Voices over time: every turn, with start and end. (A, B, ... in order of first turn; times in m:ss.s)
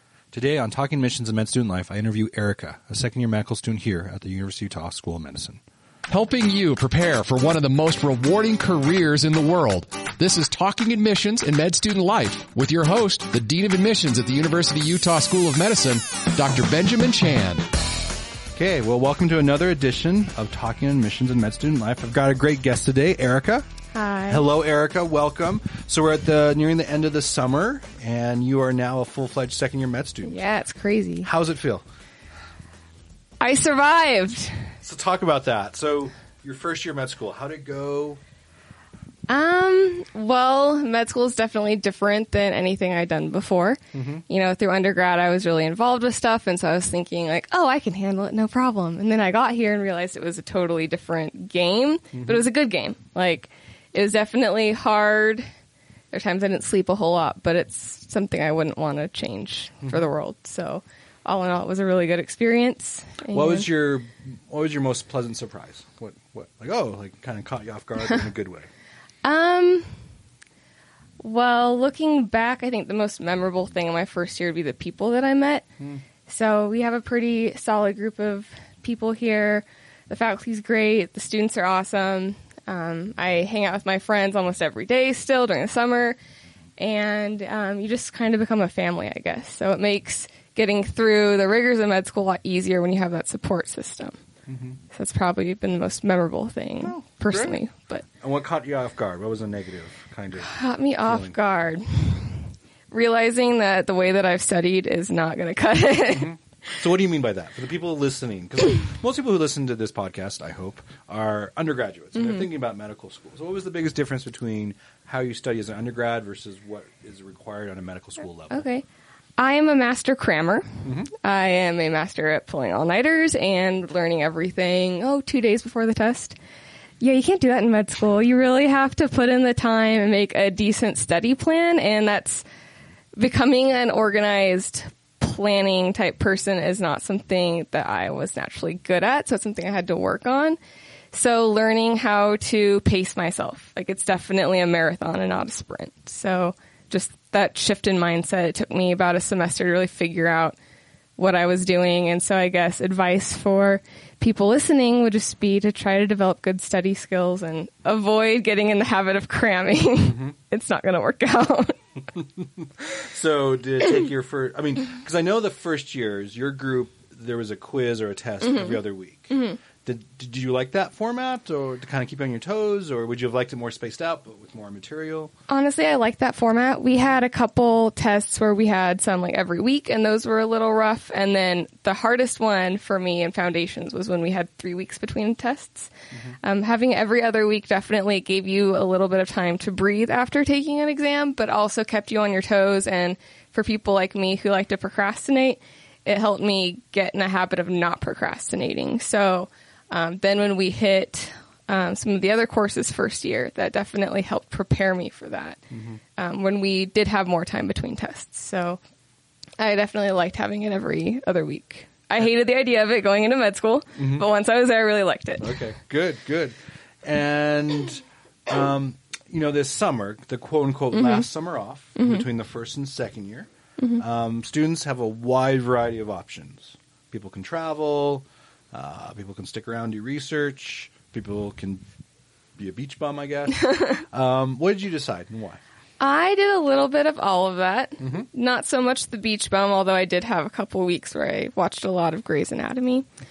0:00.3-0:05.6 A
0:06.1-0:17.7 B
0:18.5-0:23.6 A
0:23.9-0:24.5 C
0:24.3-0:30.4 A
0:30.2-0:31.3 C
0:31.2-0:31.8 A
0:33.4-0:34.5 C
0:34.8-0:38.2 A
0:39.3-0:55.4 C
0:43.9-0:44.2 A
0:52.1-0:52.4 A
0:56.1-1:03.7 C
1:03.3-1:08.7 A
1:09.2-1:09.9 C
1:11.2-1:15.7 C
1:16.3-1:26.2 C
1:26.8-1:34.2 C
1:34.5-1:34.8 A
1:34.9-1:38.0 C
1:36.8-1:41.4 A
1:40.4-1:46.4 C
1:46.1-1:58.7 A
1:52.2-1:52.4 C
1:58.5-1:58.8 C
1:59.4-2:06.4 C
2:00.8-2:01.1 A
2:07.0-2:12.4 C
2:13.2-2:20.6 C
2:21.1-2:30.6 C
2:31.2-2:41.8 C
2:42.2-2:55.3 A
2:48.4-2:49.6 C
2:55.5-3:25.6 C
3:25.7-3:26.0 A
3:26.2-3:28.8 C
3:29.6-3:35.5 C
3:34.0-3:34.3 A
3:35.4-3:51.8 A
3:40.9-3:41.3 C
3:42.0-3:42.2 C
3:52.6-3:55.6 A
3:56.0-4:03.1 C
3:58.0-3:58.3 A